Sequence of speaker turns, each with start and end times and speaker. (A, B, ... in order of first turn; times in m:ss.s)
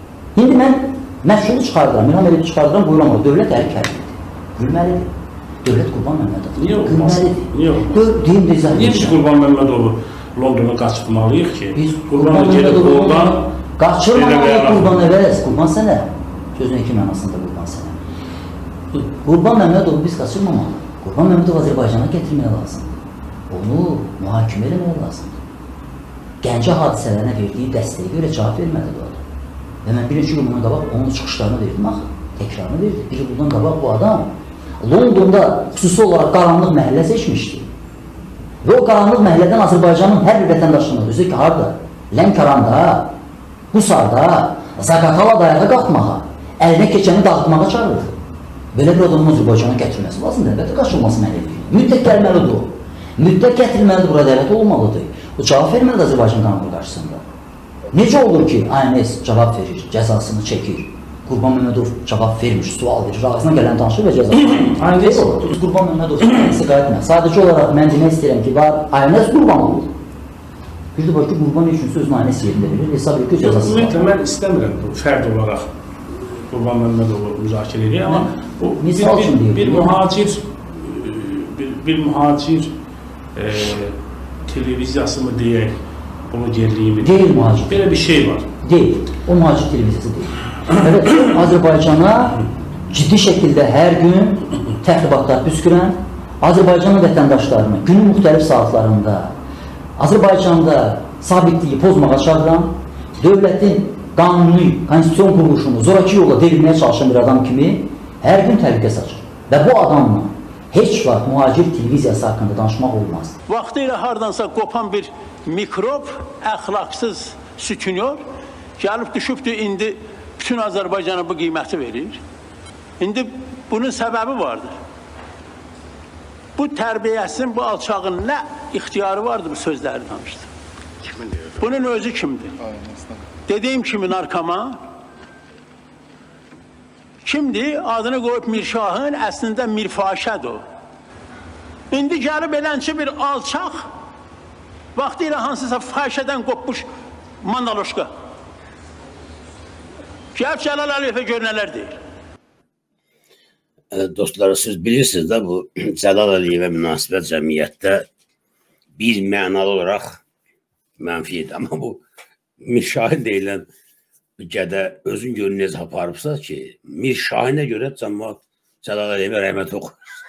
0:00.3-0:05.1 A
0:05.6-0:09.2 A
0:06.6-0:08.1 B
0:08.7-0:13.5 B
0:11.7-0:18.0 A
0:14.1-0:14.9 B
0:19.1-0:25.4 A
0:26.4-0:29.2 A
0:29.8-0:37.7 A
0:38.6-0:43.1 A
0:43.7-0:48.1 A
0:48.7-0:57.2 A
0:57.9-1:09.9 A
1:04.7-1:05.3 B
1:10.9-1:14.1 A
1:13.4-1:22.7 B
1:18.0-1:20.0 A
1:23.3-1:25.8 B
1:26.3-1:28.4 B
1:27.0-1:28.0 A
1:28.6-1:39.3 A
1:40.0-1:53.4 A
1:53.5-1:58.2 C
1:58.8-2:02.2 C
2:03.0-2:04.7 C
2:06.6-2:10.5 C
2:11.3-2:12.6 C
2:12.8-2:13.2 D
2:13.5-2:14.8 C
2:17.2-2:20.6 C
2:21.9-2:23.9 C
2:24.9-2:26.8 C
2:27.4-2:28.1 C
2:30.3-2:32.0 C
2:33.9-2:38.1 D
2:39.0-2:40.2 D
2:41.0-2:42.0 D
2:42.6-2:43.7 D
2:44.4-2:50.0 D